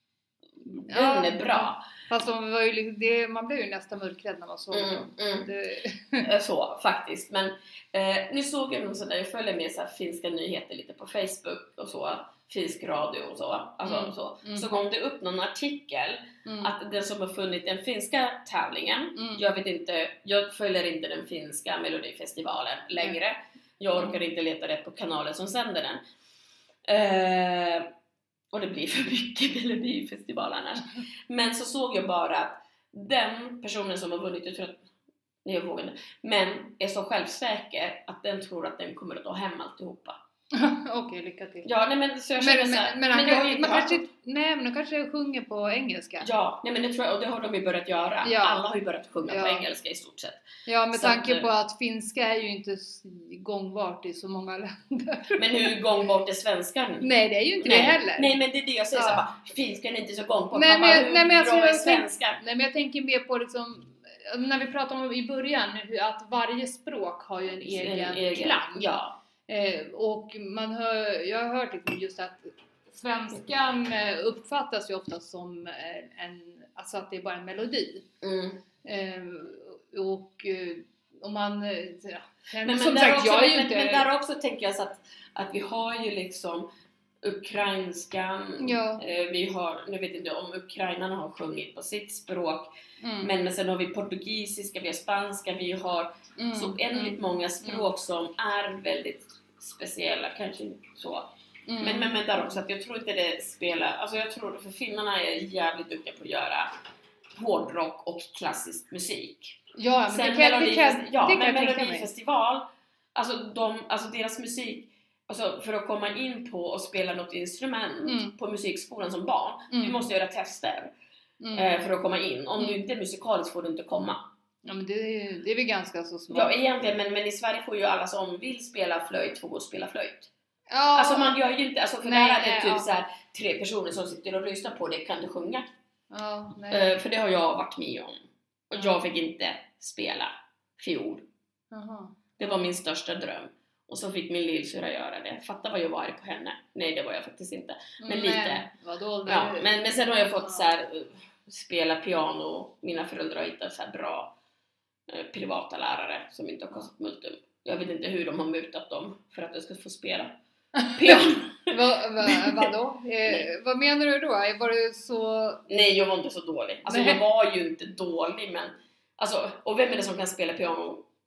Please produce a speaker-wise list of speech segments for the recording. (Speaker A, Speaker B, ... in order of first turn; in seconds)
Speaker A: 0.8-1.8, 4.7-5.5, 6.2-26.0, 26.8-27.9, 28.5-34.9, 35.4-40.2, 41.6-44.0, 46.2-51.5, 55.4-57.1, 57.6-62.4, 67.6-69.1, 78.2-78.6, 82.6-86.7, 87.2-92.7, 93.2-106.7, 107.3-120.9, 121.5-124.2, 126.3-130.3, 130.9-135.7, 136.7-141.2, 142.4-148.7, 149.2-154.3, 155.1-160.3, 160.9-162.7, 165.7-171.1
Speaker B: 0.8-6.3, 13.8-14.7, 16.4-16.7, 19.1-19.4, 40.5-41.7, 42.4-46.3, 48.2-48.6, 49.2-49.7, 50.6-55.7, 57.0-58.3, 58.9-59.2, 60.5-68.9, 69.5-78.0, 78.8-84.1, 88.6-89.0, 93.0-93.3, 96.4-97.9, 101.7-102.1, 109.8-112.1, 118.0-118.3, 119.7-120.0, 121.4-121.7, 124.6-126.6, 130.7-131.3, 132.0-132.9, 136.1-137.0, 141.7-142.7, 148.0-149.7, 160.8-165.6, 166.8-167.2